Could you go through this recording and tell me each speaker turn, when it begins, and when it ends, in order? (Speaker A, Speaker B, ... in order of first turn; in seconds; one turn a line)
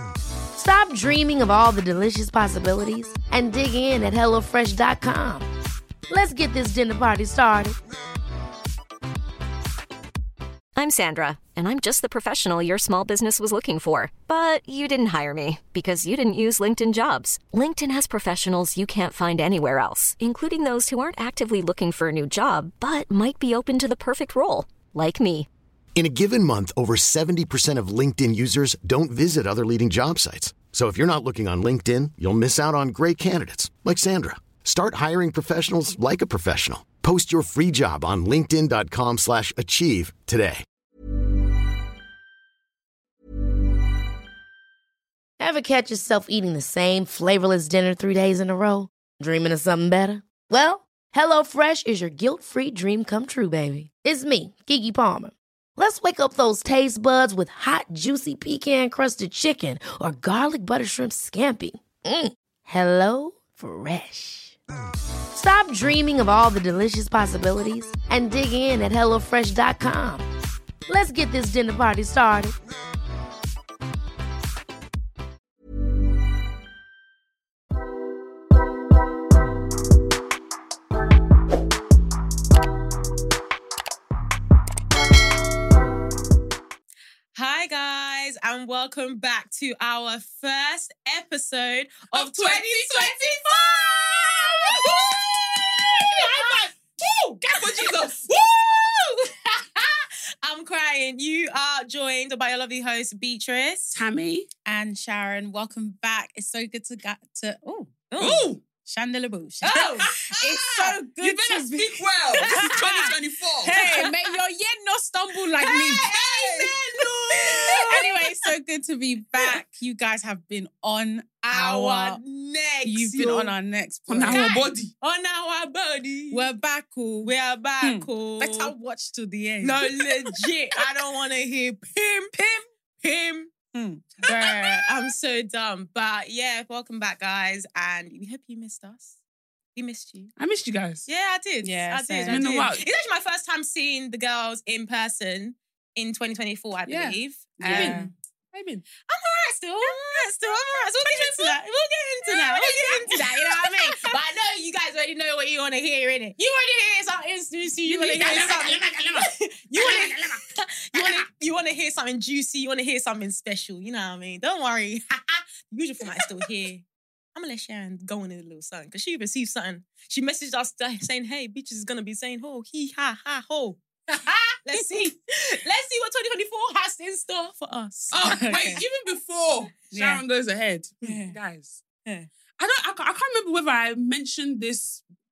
Speaker A: 0.6-5.5
Speaker A: 6.1-7.8
Speaker B: 10.8-25.5
Speaker C: 26.0-40.6
Speaker A: 45.4-64.5
Speaker A: 65.3-70.3
Speaker A: 70.9-72.5
Speaker D: 87.3-104.0
Speaker E: 92.1-93.8
Speaker E: 94.8-98.3
Speaker E: 103.9-104.5
Speaker F: 104.7-107.9
Speaker D: 108.1-108.5
Speaker E: 108.2-108.6
Speaker F: 108.8-116.1
Speaker D: 109.6-110.1
Speaker E: 110.0-113.8
Speaker D: 112.4-113.1
Speaker D: 113.7-114.1
Speaker D: 115.6-118.2
Speaker E: 116.0-118.0
Speaker F: 117.7-122.2
Speaker D: 121.4-123.5
Speaker F: 122.8-124.5
Speaker E: 124.1-124.9
Speaker D: 124.3-126.5
Speaker F: 126.3-130.5
Speaker D: 127.2-128.7
Speaker D: 129.6-132.4
Speaker D: 133.0-133.5
Speaker F: 133.7-135.0
Speaker D: 134.3-139.2
Speaker D: 139.8-140.3
Speaker E: 140.4-141.1
Speaker D: 141.1-148.1
Speaker F: 141.6-142.5
Speaker E: 142.3-142.8
Speaker E: 146.9-148.8
Speaker F: 147.6-148.1
Speaker D: 149.1-173.8
Speaker F: 149.7-151.6
Speaker F: 152.3-154.1
Speaker E: 152.4-153.2
Speaker E: 157.9-160.4
Speaker D: 174.6-178.8
Speaker E: 178.1-181.8
Speaker F: 178.2-178.8
Speaker F: 179.9-180.2
Speaker F: 181.0-181.3
Speaker E: 182.6-185.0